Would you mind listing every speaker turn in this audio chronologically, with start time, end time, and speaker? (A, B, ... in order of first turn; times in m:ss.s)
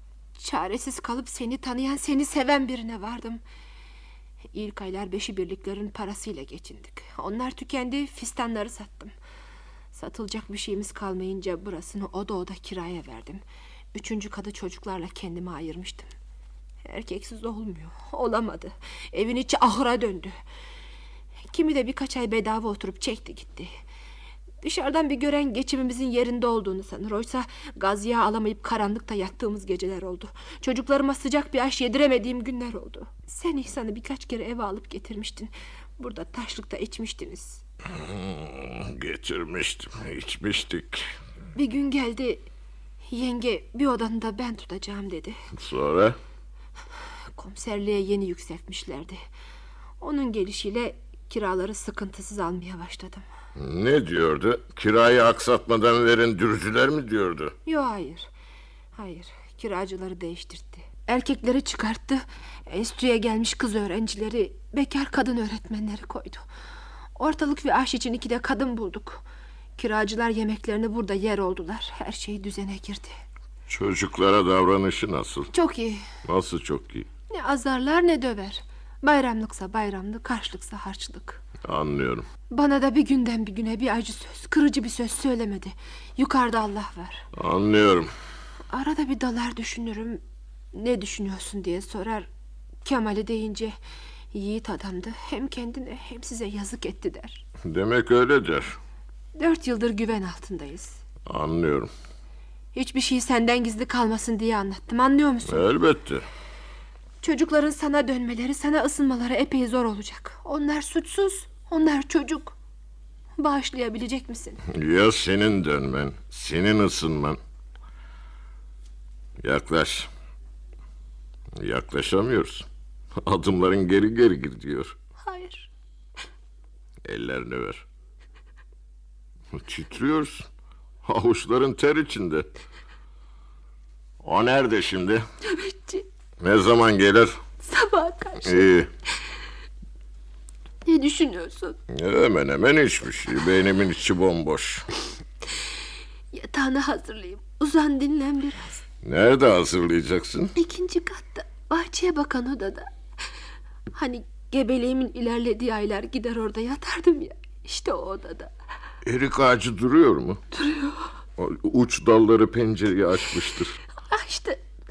0:00.4-0:03.4 A
0:04.5-0:09.1 A
0:09.9-0:13.4 A
0:13.9-0:16.1 A
0:16.8-0:20.3 A
0:21.5-0:23.7 A
0:24.6-0:37.6 A
0:37.9-0:41.1 B
0:41.6-0:42.4 A
0:43.1-0:45.4 A
0:45.6-0:46.2 B
0:47.4-0:49.2 A
0:50.0-0:53.2 A
0:53.6-0:57.6 B
0:57.7-0:58.3 A
0:59.0-1:06.4 A
1:07.2-1:09.2 A
1:09.8-1:13.2 A
1:13.7-1:15.5 B
1:15.5-1:16.0 A
1:16.2-1:17.1 B
1:17.3-1:21.4 A
1:21.6-1:22.3 B
1:22.5-1:27.2 A
1:27.4-1:28.1 B
1:28.7-1:30.2 A
1:30.7-1:32.3 A
1:32.8-1:33.8 A
1:34.3-1:37.4 A
1:37.6-1:38.8 B
1:39.4-1:41.0 A
1:41.3-1:41.9 B
1:42.8-1:45.6 A
1:45.5-1:46.3 B
1:47.2-1:52.6 A
1:53.4-1:54.6 A
1:54.7-1:57.4 B
1:59.4-2:00.1 B
2:01.6-2:02.6 B
2:03.2-2:04.9 B
2:05.2-2:05.7 A
2:07.0-2:07.8 B
2:09.5-2:10.5 B
2:11.0-2:12.5 B
2:14.2-2:15.2 B
2:15.4-2:16.0 A
2:16.4-2:17.4 B
2:17.6-2:18.7 A
2:18.4-2:18.9 B
2:20.9-2:21.8 A
2:21.9-2:24.9 B
2:26.3-2:28.8 A
2:29.0-2:30.5 B
2:30.6-2:32.9 A
2:34.0-2:38.5 A
2:39.0-2:40.4 B
2:40.5-2:41.1 A
2:41.4-2:43.8 B
2:44.1-2:44.6 A